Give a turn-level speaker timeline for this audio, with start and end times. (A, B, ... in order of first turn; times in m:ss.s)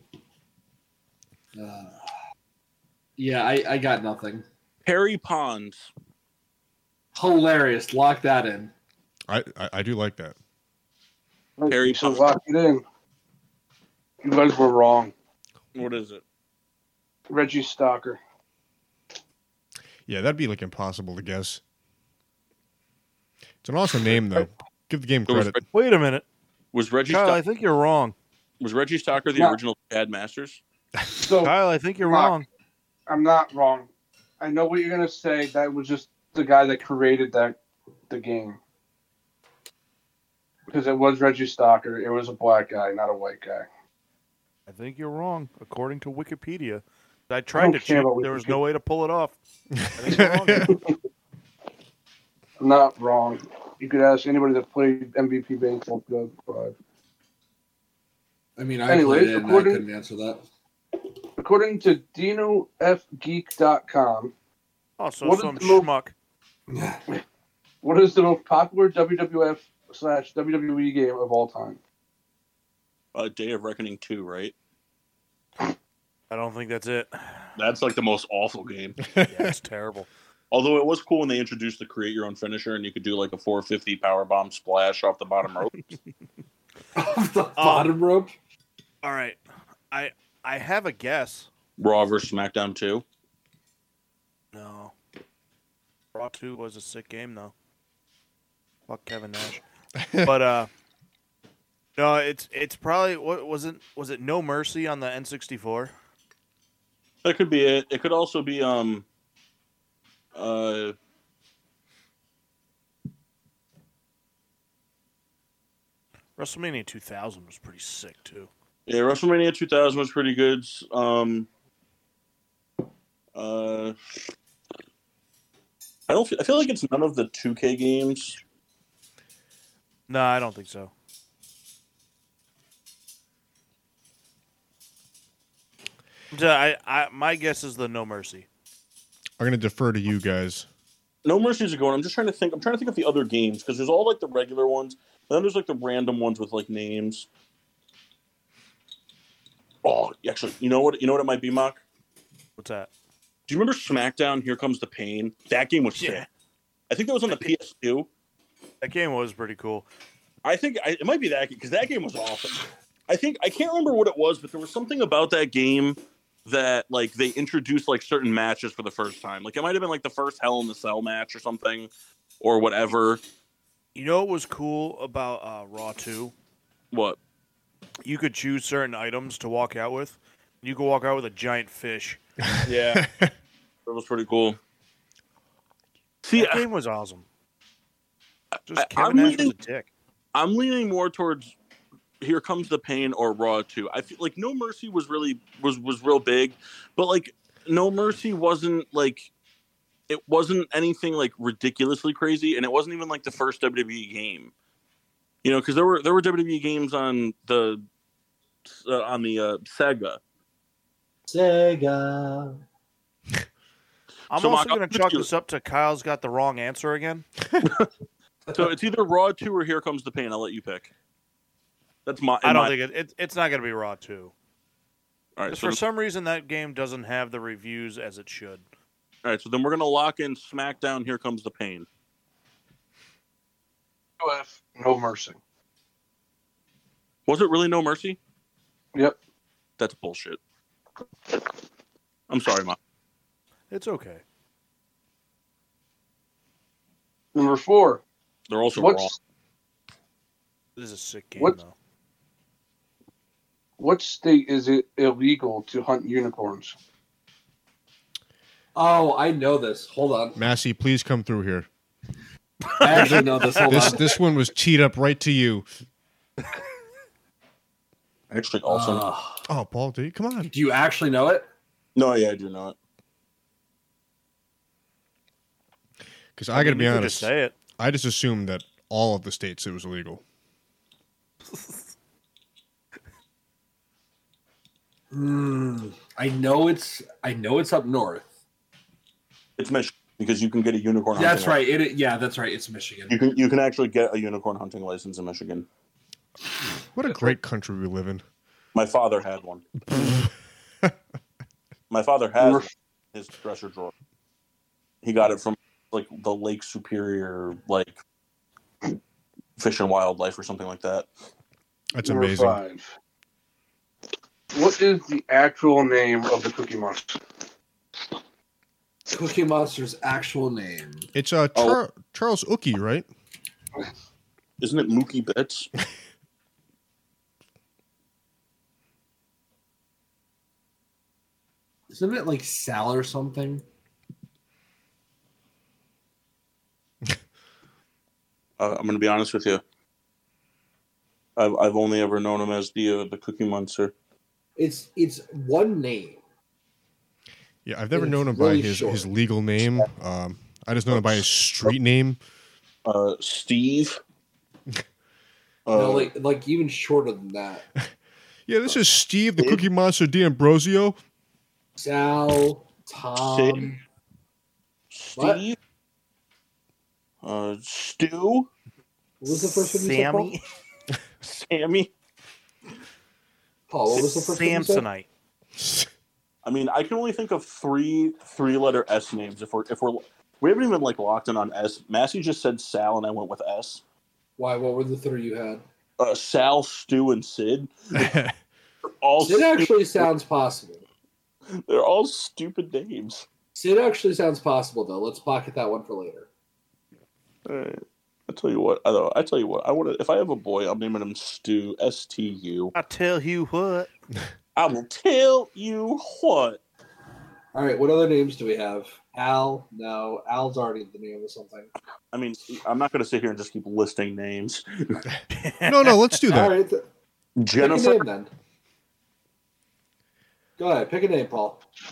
0:01.6-0:02.0 A
0:03.2-0:04.4 A
0:04.8-0:05.9 B
0:07.2-0:08.7 A
0:09.3-0:10.4 C
0:11.6-0:12.8 D
0:11.7-0:12.2 B
0:14.2-0:15.1 D
0:15.8-0:16.2 B
0:17.3-0:18.2 D
0:20.1-0:21.6 C
0:23.6-0:25.6 C
0:25.3-0:25.6 B
0:25.7-0:26.2 E
0:26.7-0:27.4 B
0:27.1-0:28.2 E
0:28.6-0:30.6 B
0:31.2-0:32.3 D
0:31.4-0:32.5 E
0:33.1-0:33.9 D
0:34.4-0:37.6 D
0:38.1-0:38.6 D
0:40.7-0:43.7 D
0:44.7-0:49.4 E
0:47.6-0:48.6 D
0:49.8-0:50.7 C
0:50.0-0:50.8 E
0:50.6-0:50.9 D
0:52.6-0:56.8 D
0:58.6-1:00.4 A
0:58.9-0:59.8 D
1:01.4-1:04.3 D
1:05.0-1:06.1 E
1:05.2-1:05.9 D
1:06.7-1:07.0 A
1:07.8-1:11.8 D
1:13.1-1:14.6 B
1:16.3-1:17.5 E
1:17.6-1:19.0 B
1:19.1-1:19.5 C
1:19.3-1:20.1 E
1:20.5-1:25.8 B
1:27.0-1:28.3 A
1:27.6-1:27.9 E
1:29.0-1:29.4 E
1:29.9-1:31.5 E
1:31.8-1:33.0 B
1:34.5-1:34.9 E
1:36.1-1:37.5 E
1:38.9-1:39.6 E
1:40.0-1:40.3 C
1:40.2-1:40.7 E
1:42.0-1:45.9 E
1:47.2-1:49.0 B
1:50.4-1:51.0 B
1:56.4-1:58.5 E
1:58.9-2:01.5 B
2:03.4-2:04.2 B
2:06.1-2:08.4 B
2:10.1-2:10.9 E
2:16.3-2:18.5 E
2:19.4-2:20.7 C
2:21.2-2:27.3 B
2:29.8-2:31.8 B
2:32.6-2:32.9 E
2:33.5-2:36.3 B
2:36.0-2:36.3 E
2:36.9-2:38.1 B
2:38.8-2:39.9 E
2:40.4-2:51.9 B
2:52.4-2:53.2 B
2:54.0-2:56.3 E
2:56.9-2:57.2 B
2:58.0-3:02.2 E
3:02.5-3:03.3 C
3:02.6-3:03.0 B
3:03.9-3:04.6 B
3:06.2-3:06.7 B
3:06.4-3:07.2 E
3:08.7-3:09.9 E
3:08.8-3:09.5 B
3:10.3-3:11.5 B
3:12.2-3:19.3 B
3:20.1-3:24.5 B
3:25.4-3:27.8 B
3:28.6-3:30.2 B
3:31.3-3:32.6 A
3:34.3-3:37.2 E
3:34.3-3:35.3 B
3:37.6-3:37.9 B
3:38.5-3:40.9 B
3:42.1-3:42.7 B
3:42.4-3:44.3 E
3:45.4-3:45.8 B
3:45.5-3:48.6 E
3:49.2-3:51.9 B
3:54.2-3:55.4 D
3:57.3-3:58.2 B
3:59.8-4:00.4 B
4:02.3-4:02.8 B
4:03.7-4:04.2 E
4:07.4-4:08.0 D
4:08.5-4:09.1 B
4:08.8-4:09.2 D
4:10.8-4:11.7 E
4:13.8-4:16.8 D
4:18.8-4:20.4 A
4:20.4-4:21.7 C
4:22.7-4:23.9 E
4:22.8-4:24.2 A
4:23.0-4:25.7 C
4:28.3-4:29.1 B
4:28.7-4:29.5 A
4:29.5-4:30.5 C
4:30.5-4:31.5 A
4:32.0-4:32.8 B
4:36.4-4:40.2 C
4:36.5-4:37.5 E
4:41.5-4:41.8 E
4:45.1-4:48.3 A
4:49.6-4:51.6 B
4:51.1-4:53.2 A
4:53.1-4:55.7 B
4:56.9-4:58.2 C
4:58.8-4:59.7 B
4:59.9-5:00.3 C
5:01.9-5:03.9 B
5:02.4-5:02.7 D
5:05.0-5:08.0 B
5:09.6-5:11.1 B
5:11.9-5:12.6 C
5:12.0-5:12.9 D
5:14.5-5:17.2 D
5:19.1-5:21.1 A
5:21.2-5:23.1 C
5:24.6-5:25.7 B
5:31.9-5:33.6 A
5:38.6-5:39.6 B
5:41.4-5:43.9 B
5:44.6-5:46.2 A
5:47.7-5:52.2 C
5:47.9-5:49.1 A
5:50.9-5:51.7 B
5:52.8-5:54.0 B
5:55.7-5:56.1 B
5:55.7-5:57.6 A
5:58.5-6:01.0 C
6:01.8-6:03.8 A
6:03.2-6:03.8 B
6:04.9-6:05.6 B
6:05.2-6:05.4 A
6:07.2-6:08.5 B
6:09.2-6:10.3 A
6:09.3-6:10.4 E
6:11.2-6:11.9 B
6:13.7-6:14.9 A
6:13.9-6:15.1 E
6:15.6-6:15.9 C
6:16.4-6:23.8 B
6:24.4-6:25.6 A
6:26.0-6:28.2 B
6:28.0-6:28.3 C
6:29.0-6:30.1 B
6:29.2-6:30.8 A
6:31.5-6:33.3 B
6:33.6-6:36.3 A
6:37.5-6:42.7 B
6:42.7-6:43.9 E
6:44.6-6:46.6 B
6:47.5-6:51.7 A
6:52.1-6:55.0 B
6:55.3-6:56.2 E
6:55.6-6:56.5 C
6:56.3-6:56.8 A
6:57.4-6:58.0 B
6:57.6-6:58.3 A
7:00.6-7:01.6 A